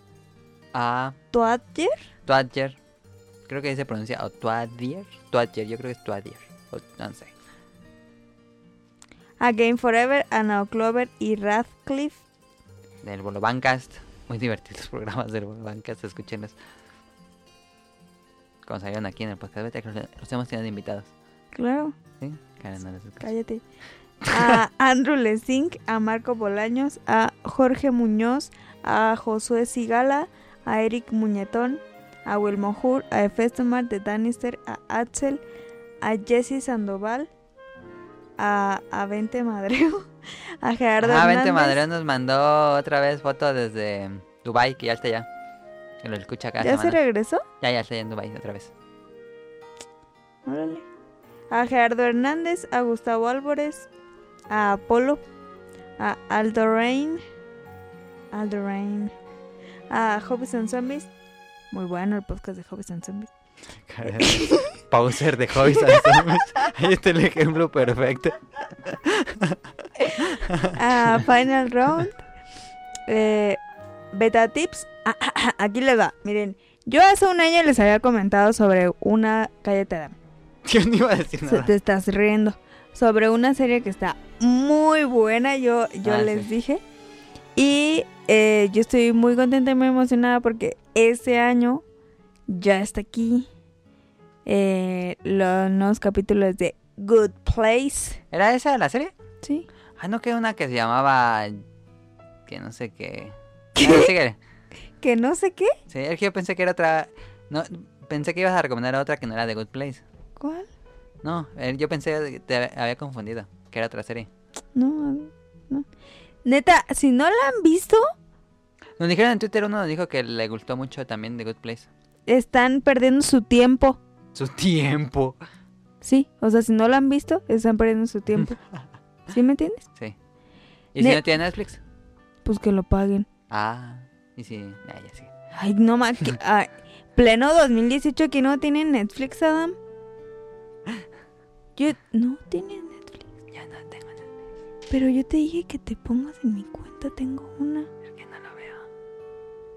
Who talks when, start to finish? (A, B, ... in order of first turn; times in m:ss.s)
0:00.7-0:01.2 A
0:01.3-0:02.0 B
0:02.3-0:02.8 A
0:03.5-0:07.3 A
0:09.4-0:12.2 B
0:13.0-0:16.6 A
0:18.6-0:21.1 A
0:21.5-0:22.0 B
0:22.2-0:23.3 A
0:23.2-0:23.6 B
0:24.3-0:35.4 B
0:36.0-0:37.3 B
0:38.4-0:41.8 B
0:41.0-0:45.3 A
0:46.0-0:47.0 A
0:46.6-0:47.4 B
0:47.6-0:48.7 A
0:50.5-0:50.9 B
0:51.5-0:53.9 B
0:54.5-0:55.2 B
0:56.0-0:57.2 B
0:58.3-0:59.1 B
0:59.9-1:01.1 B
1:01.7-1:03.3 B
1:03.9-1:09.6 A
1:04.0-1:04.8 B
1:05.7-1:06.4 B
1:10.2-1:10.8 A
1:10.7-1:12.2 B
1:13.1-1:13.6 B
1:14.1-1:20.2 B
1:20.7-1:21.7 A
1:21.5-1:26.8 B
1:26.0-1:26.5 A
1:27.6-1:31.8 B
1:32.5-1:33.5 B
1:34.5-1:38.2 B
1:38.3-1:39.1 A
1:40.0-1:41.6 A
1:42.5-1:44.4 A
1:43.8-1:44.1 B
1:45.0-1:45.8 B
1:45.9-1:50.0 A
1:50.4-1:50.7 B
1:51.2-1:54.3 A
1:54.8-1:55.9 B
1:56.4-1:58.1 B
1:59.0-2:01.9 A
2:02.3-2:04.0 B
2:04.4-2:05.4 A
2:06.0-2:08.6 B
2:09.3-2:09.9 B
2:10.9-2:11.8 A
2:12.4-2:13.3 B
2:13.5-2:15.3 A
2:15.5-2:19.8 B
2:21.8-2:23.3 B
2:23.5-2:24.2 A
2:24.9-2:27.9 B
2:28.2-2:28.8 A